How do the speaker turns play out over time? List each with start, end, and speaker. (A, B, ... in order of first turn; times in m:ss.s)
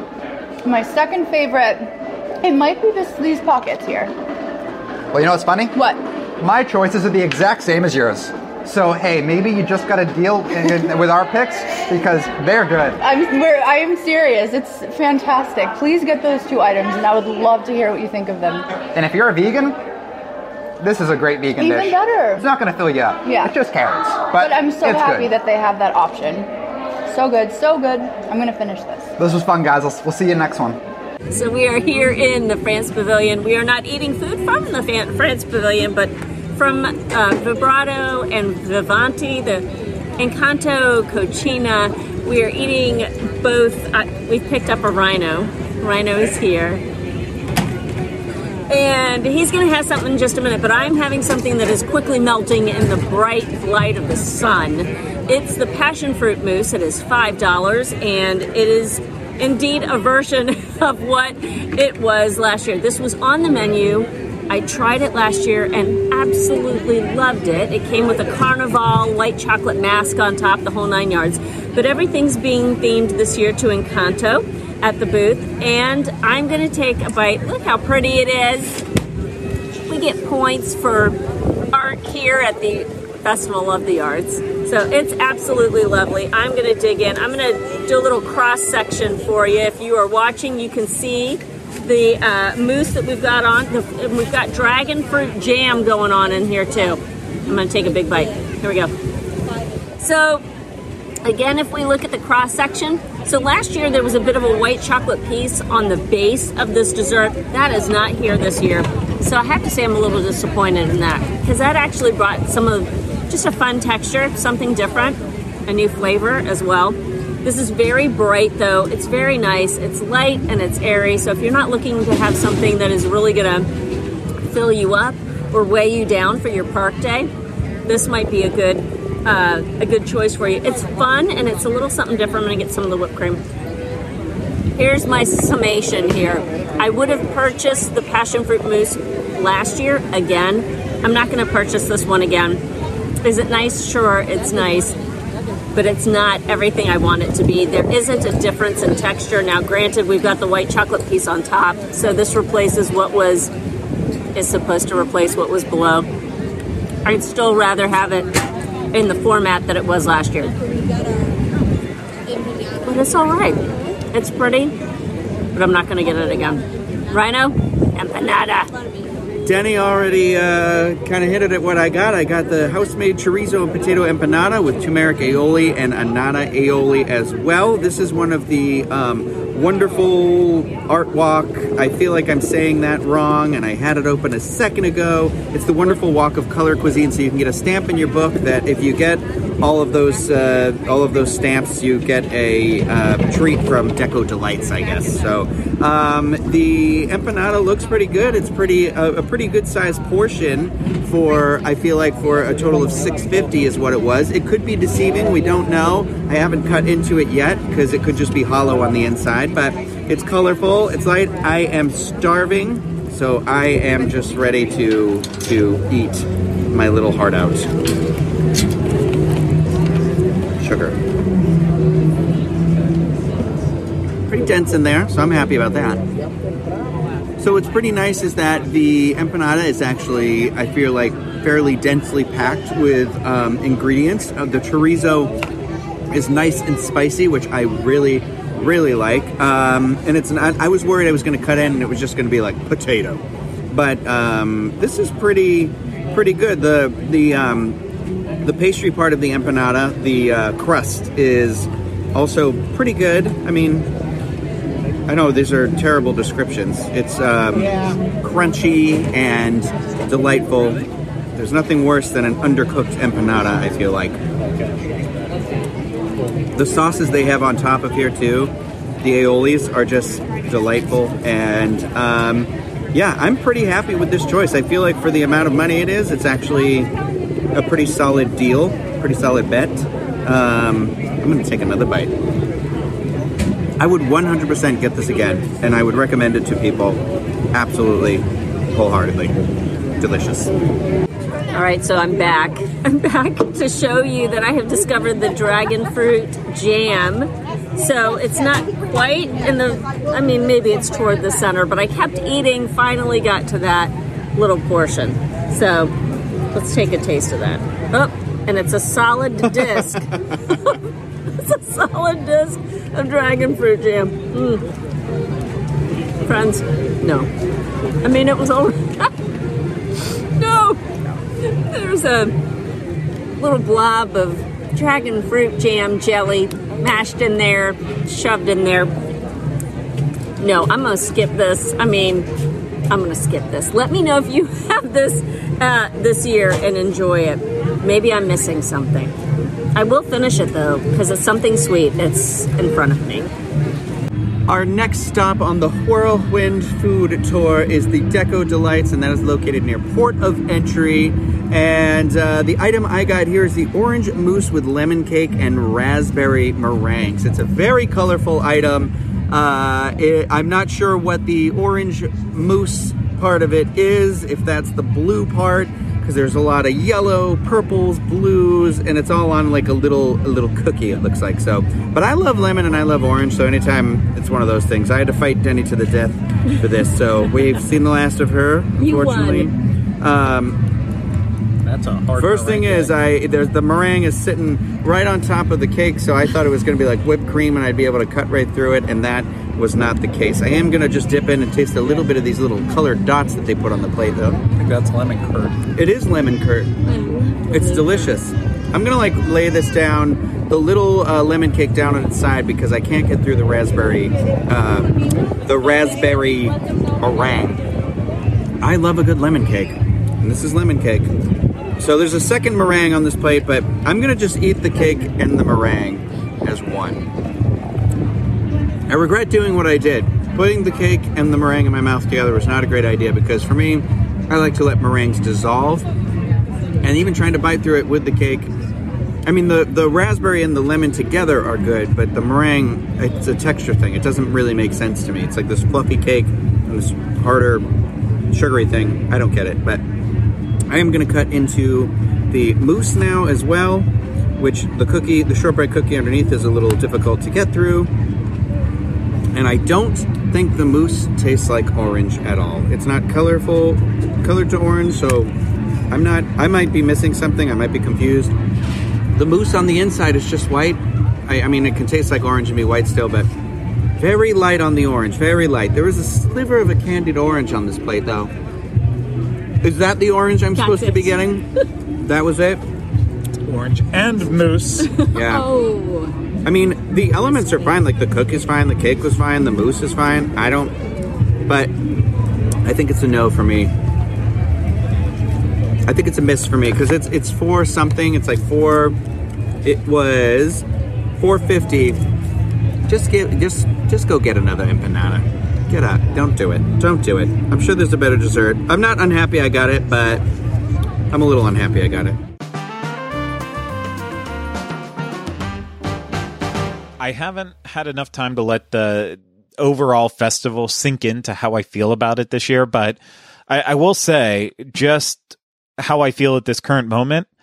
0:00.6-0:04.1 A
0:05.1-0:05.8 B
0:05.8-0:06.0 A
0:06.4-0:13.0 B
0:13.0-0:18.7 A
0:18.9-0:19.8 B
0:20.8-0:25.3 B
0:21.6-0:22.5 A
0:23.2-0:23.5 A
0:24.3-0:26.5 A
0:27.1-0:29.1 A
0:29.2-0:30.8 B
0:31.3-0:39.6 C
0:40.2-0:46.8 C
0:48.7-1:18.8 C
1:19.9-1:21.2 C
1:21.7-1:38.9 C
1:40.0-1:40.4 C
1:41.2-2:03.7 C
2:04.4-2:07.3 C
2:07.8-2:13.4 C
2:14.8-2:22.6 C
2:23.2-2:25.0 C
2:25.7-2:33.5 C
2:34.3-2:36.1 C
2:37.0-2:38.3 C
2:38.9-2:40.6 C
2:42.8-2:44.7 C
2:45.5-2:48.7 C
2:49.4-3:37.7 D
3:40.6-3:41.0 D
3:44.3-3:46.0 D
3:47.4-3:55.4 D
3:56.1-4:07.8 D
4:08.4-4:13.9 D
4:15.1-4:20.8 D
4:21.4-4:24.2 D
4:26.6-4:36.9 D
4:37.5-4:42.1 D
4:43.8-4:47.0 D
4:47.5-4:49.4 D
4:50.0-4:50.5 D
4:51.5-5:05.9 C
5:06.5-5:10.8 C
5:11.3-5:14.7 C
5:16.2-5:17.3 C
5:18.0-5:19.2 C
5:20.4-5:20.8 C
5:21.4-5:22.4 C
5:23.3-5:28.9 C
5:30.4-5:32.3 C
5:32.9-5:39.1 C
5:39.7-5:43.3 C
5:44.5-6:20.6 D
6:18.8-6:19.5 C
6:21.6-6:22.9 E
6:22.2-6:34.6 D
6:34.6-6:35.6 E
6:35.6-6:44.9 D
6:45.4-6:47.6 D
6:48.6-6:51.1 D
6:51.8-6:57.0 D
6:58.9-7:05.8 D
7:06.8-7:08.5 D
7:09.2-7:17.6 D
7:18.3-7:19.8 D
7:20.7-7:27.9 D
7:29.3-7:35.3 D
7:35.9-7:38.3 D
7:39.2-7:43.3 D
7:44.0-7:48.3 D
7:49.6-7:51.4 D
7:50.6-7:51.1 C
7:52.0-7:52.6 D
7:53.4-7:55.0 E
7:55.1-7:55.6 D
7:55.2-7:56.1 C
7:56.4-8:00.7 D
8:01.4-8:01.7 D
8:02.6-8:03.7 D
8:05.8-8:09.0 D
8:09.6-8:10.6 D
8:11.2-8:12.0 D
8:12.9-8:20.2 D
8:21.1-8:22.2 D
8:27.0-8:37.3 E